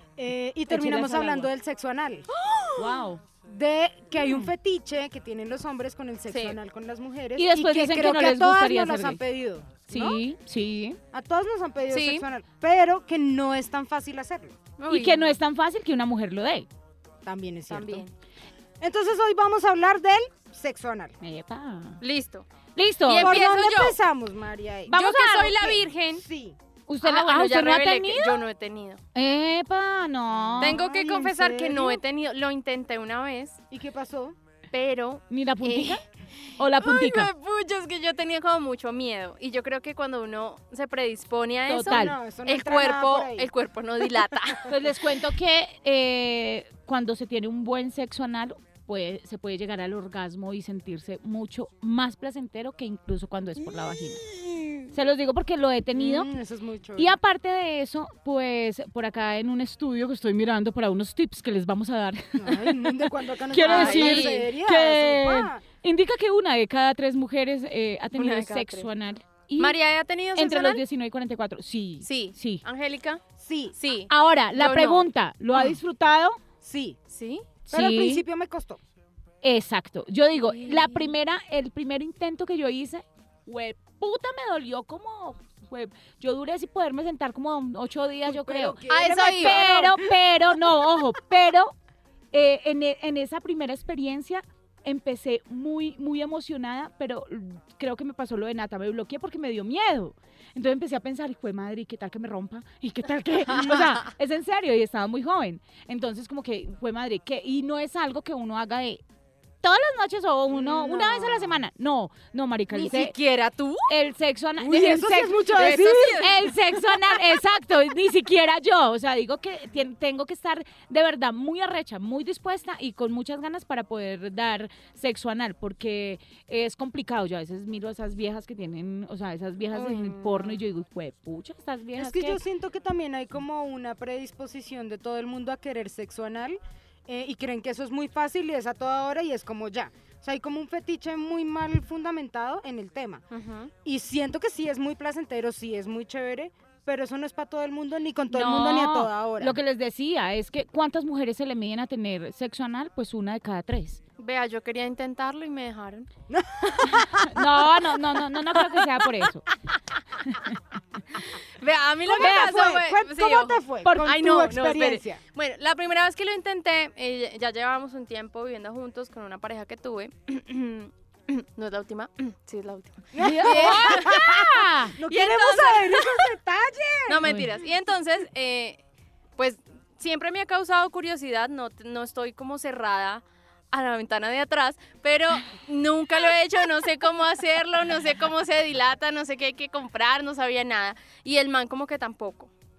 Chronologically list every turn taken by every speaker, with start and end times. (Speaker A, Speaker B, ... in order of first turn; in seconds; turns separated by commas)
Speaker A: 0.2-2.3, Speaker B: 0.7-1.5, Speaker C: 2.3-3.0, Speaker B: 2.7-3.2, Speaker A: 3.4-10.2, Speaker C: 6.3-6.6, Speaker B: 7.4-9.2, Speaker B: 9.9-11.0, Speaker A: 11.1-14.6, Speaker C: 11.9-12.2, Speaker C: 14.8-15.3, Speaker B: 14.9-16.7, Speaker A: 17.2-18.1, Speaker C: 17.7-18.1, Speaker A: 18.8-21.1, Speaker B: 21.2-22.0, Speaker C: 22.0-22.4, Speaker B: 22.8-23.4, Speaker C: 23.1-24.0, Speaker A: 23.2-26.6, Speaker B: 24.9-25.7, Speaker C: 24.9-26.2, Speaker B: 26.9-28.4, Speaker C: 27.0-29.0, Speaker B: 29.1-30.8, Speaker A: 30.5-32.0, Speaker C: 30.6-33.6, Speaker A: 33.7-34.4, Speaker C: 34.7-36.0, Speaker B: 35.3-36.0, Speaker B: 36.6-37.3, Speaker C: 36.8-44.7, Speaker B: 41.7-42.1, Speaker A: 41.7-43.5, Speaker A: 44.3-44.6, Speaker B: 44.7-54.2, Speaker A: 54.4-54.7, Speaker B: 54.9-56.3, Speaker A: 55.9-57.1, Speaker B: 57.0-62.9, Speaker A: 62.4-65.6, Speaker B: 63.5-69.8, Speaker C: 63.6-64.5, Speaker C: 68.1-68.9, Speaker C: 69.6-70.8, Speaker B: 70.3-72.6, Speaker C: 72.0-73.2, Speaker A: 73.4-73.8, Speaker C: 73.8-75.8, Speaker B: 74.1-76.4, Speaker A: 76.6-77.0, Speaker C: 77.1-77.5, Speaker A: 77.7-78.8, Speaker B: 77.7-78.2, Speaker B: 79.4-91.7, Speaker C: 80.4-81.1, Speaker A: 88.2-90.2, Speaker C: 88.9-89.6, Speaker B: 92.3-109.0, Speaker C: 103.5-103.8, Speaker B: 109.6-113.1, Speaker A: 110.5-111.6, Speaker C: 112.7-113.9, Speaker B: 113.9-132.4, Speaker A: 114.6-116.2, Speaker C: 115.5-117.0, Speaker C: 129.7-130.6, Speaker A: 132.0-143.2, Speaker C: 143.3-143.7, Speaker A: 143.8-149.6, Speaker B: 148.3-154.0, Speaker C: 154.2-156.1, Speaker A: 156.3-157.3, Speaker B: 156.9-159.4, Speaker B: 160.2-160.6, Speaker C: 161.1-174.2, Speaker A: 162.1-165.2, Speaker B: 162.2-162.5, Speaker A: 173.1-177.2, Speaker B: 173.2-174.9, Speaker C: 175.0-176.3, Speaker C: 177.1-178.8, Speaker B: 177.2-177.5, Speaker C: 179.4-192.5